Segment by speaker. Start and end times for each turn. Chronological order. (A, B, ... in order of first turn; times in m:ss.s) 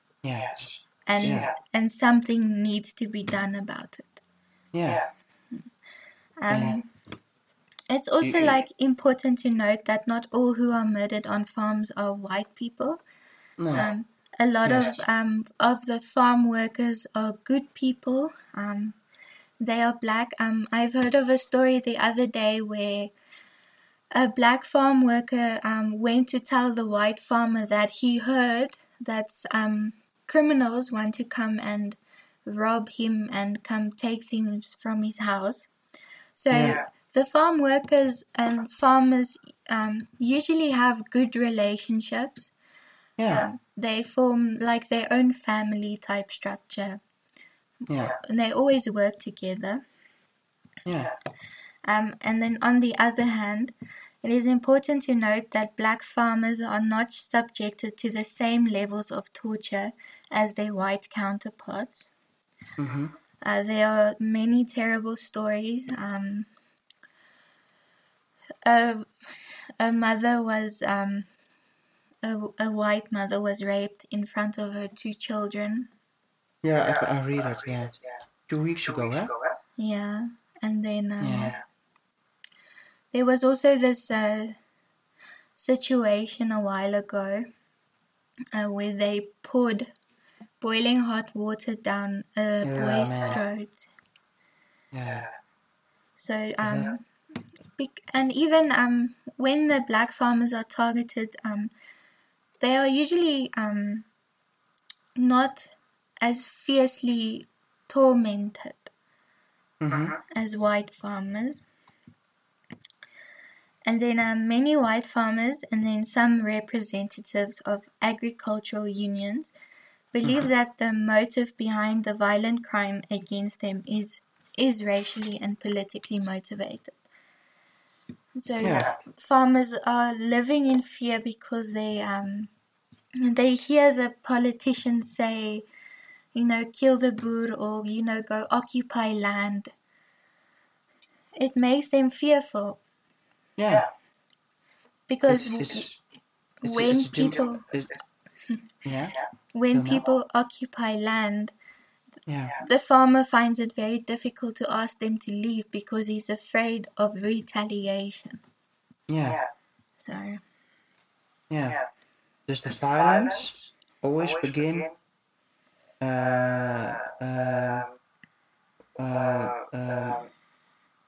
0:00.2-0:01.5 A
0:01.1-0:04.2 B
0:04.7-0:05.0 A
0:06.4-0:06.9 B
0:06.5-0:06.8 A
0:07.9-0:13.0 B
0:08.2-0:08.6 A
0:13.6-0:13.9 A
0:13.7-0:19.0 B
0:14.6-0:15.0 A
0:19.6-0:23.1 B
0:24.1-0:35.7 B
0:36.4-0:42.5 B
0:36.5-0:36.8 A
0:43.2-0:43.5 A
0:43.3-0:47.0 B
0:47.9-0:48.2 A
0:48.0-0:49.8 B
0:50.8-0:51.1 A
0:51.8-1:02.1 B
1:02.8-1:03.1 A
1:03.4-1:06.5 B
1:08.6-1:11.3 B
1:12.2-1:15.9 B
1:16.6-1:18.0 A
1:18.5-1:19.3 A
1:19.8-1:21.6 B
1:21.2-1:21.6 A
1:23.1-1:24.6 B
1:25.6-1:27.5 B
1:28.5-1:29.9 B
1:30.6-1:33.9 B
1:32.6-1:33.4 A
1:34.9-1:35.3 A
1:36.2-1:37.0 B
1:36.6-1:36.9 A
1:37.8-1:41.7 B
1:42.6-1:44.1 B
1:45.2-1:48.9 B
1:49.8-1:50.2 A
1:50.3-1:51.6 B
1:53.8-1:59.5 B
2:00.1-2:07.0 B
2:08.4-2:12.5 B
2:08.6-2:08.9 A
2:13.2-2:15.6 B
2:16.3-2:19.7 B
2:21.4-2:22.8 B
2:23.6-2:23.9 A
2:25.1-2:25.9 B
2:25.3-2:26.0 A
2:26.6-2:27.6 B
2:26.6-2:27.9 A
2:28.8-2:29.2 A
2:29.5-2:31.5 B
2:29.7-2:30.0 A
2:32.2-2:32.6 A
2:32.6-2:38.4 B
2:39.1-2:39.4 A
2:40.0-2:40.4 B
2:41.5-2:41.8 A
2:42.5-2:44.9 A
2:46.0-2:47.9 A
2:49.0-2:50.3 A